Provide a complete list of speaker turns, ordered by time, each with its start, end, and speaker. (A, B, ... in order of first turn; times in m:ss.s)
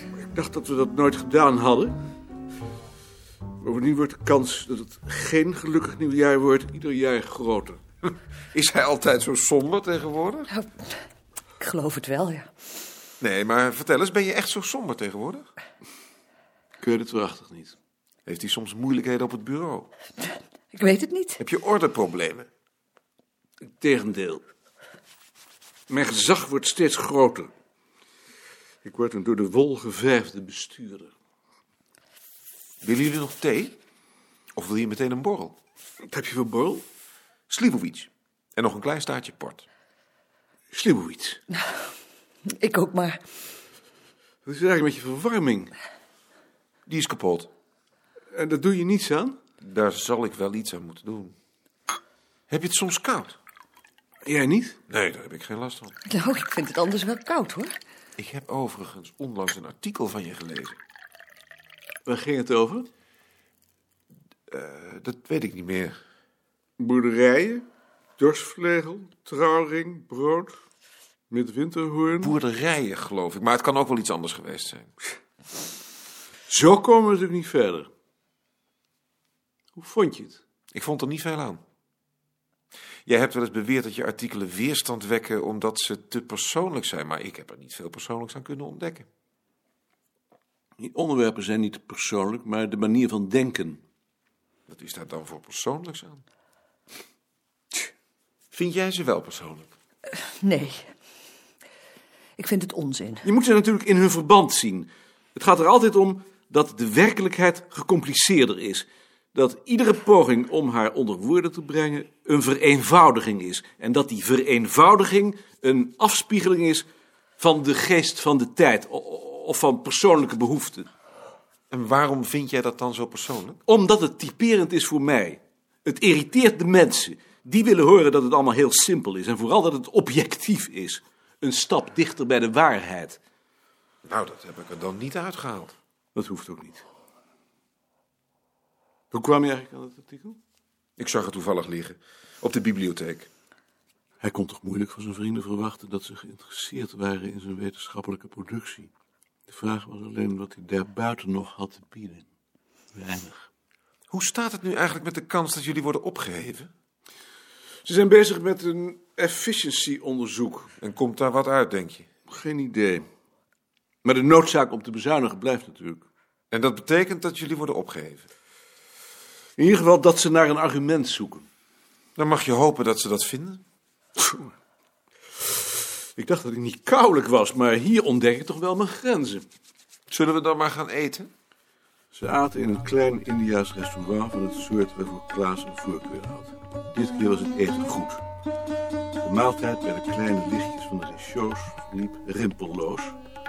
0:00.3-0:02.0 A
0:03.6-0:07.8 A
0:08.5-0:10.5 B
0:10.5-0:10.9 C
0:11.6-0:12.5 C
0:13.2-0:15.5 B
0:16.8-0:17.7 A
0:18.2-0:19.9 B
0:20.7-0:21.4 C
0:21.4-0:22.5 B
0:23.7-0:24.4 A
0:25.9-0:27.5 A
0:28.8-0:31.1 A
0:32.8-0:33.8 B
0:34.5-0:35.6 B
0:36.0-0:36.8 A
0:37.5-0:39.6 B
0:40.7-0:41.4 A
0:42.5-0:43.2 C
0:44.4-0:45.7 A
0:46.9-0:47.5 B
0:48.3-0:49.4 A
0:49.6-0:51.3 B
0:52.5-0:53.4 B
0:54.2-0:54.8 A
0:54.9-0:55.9 B
0:56.0-0:57.8 C
0:58.2-1:00.8 B
1:02.0-1:02.9 A
1:04.5-1:06.0 B
1:06.8-1:07.6 A
1:08.2-1:10.5 A
1:11.3-1:12.3 A
1:12.2-1:14.9 B
1:16.5-1:17.9 A
1:19.7-1:20.4 A
1:20.7-1:21.6 B
1:23.0-1:29.1 B
1:30.8-1:33.8 A
1:34.7-1:36.2 B
1:38.5-1:39.7 B
1:40.4-1:40.9 C
1:42.4-1:43.2 C
1:43.2-1:56.9 A
1:57.4-2:00.9 A
2:01.7-2:03.6 B
2:03.6-2:13.2 A
2:14.0-2:15.7 B
2:16.1-2:16.8 A
2:19.1-2:20.4 A
2:21.0-2:23.3 B
2:24.2-2:28.9 A
2:29.5-2:32.3 A
2:32.9-2:33.5 A
2:34.1-2:36.7 B
2:37.8-2:40.7 A
2:40.8-2:42.0 B
2:42.3-2:43.0 A
2:44.0-2:46.0 A
2:46.5-2:48.3 B
2:49.6-2:51.5 A
2:52.2-2:53.6 B
2:54.2-2:54.5 A
2:56.2-2:59.4 A
3:00.1-3:01.3 B
3:02.1-3:08.2 A
3:09.2-3:13.2 A